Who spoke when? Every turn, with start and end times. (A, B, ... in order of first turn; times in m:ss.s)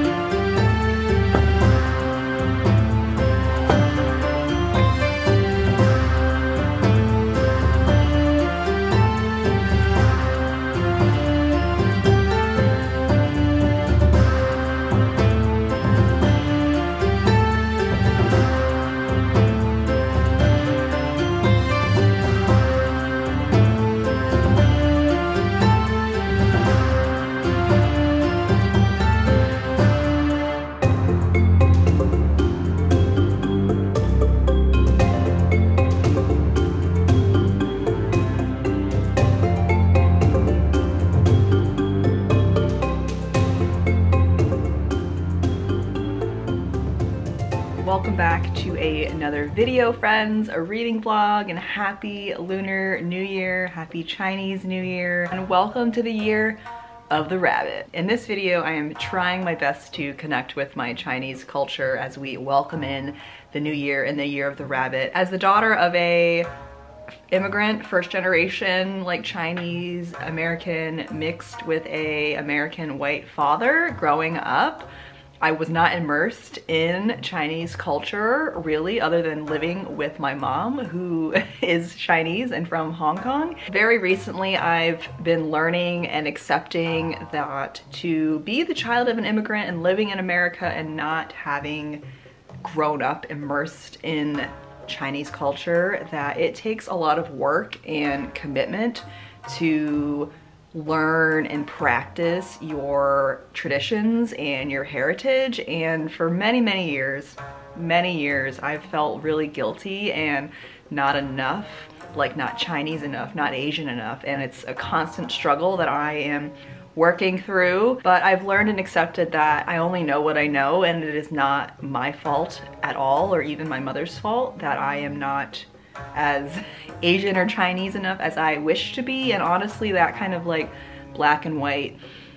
0:47.8-1:06.5 A
1:07.3-1:14.9 A
1:15.4-1:32.0 A
1:32.6-2:12.0 A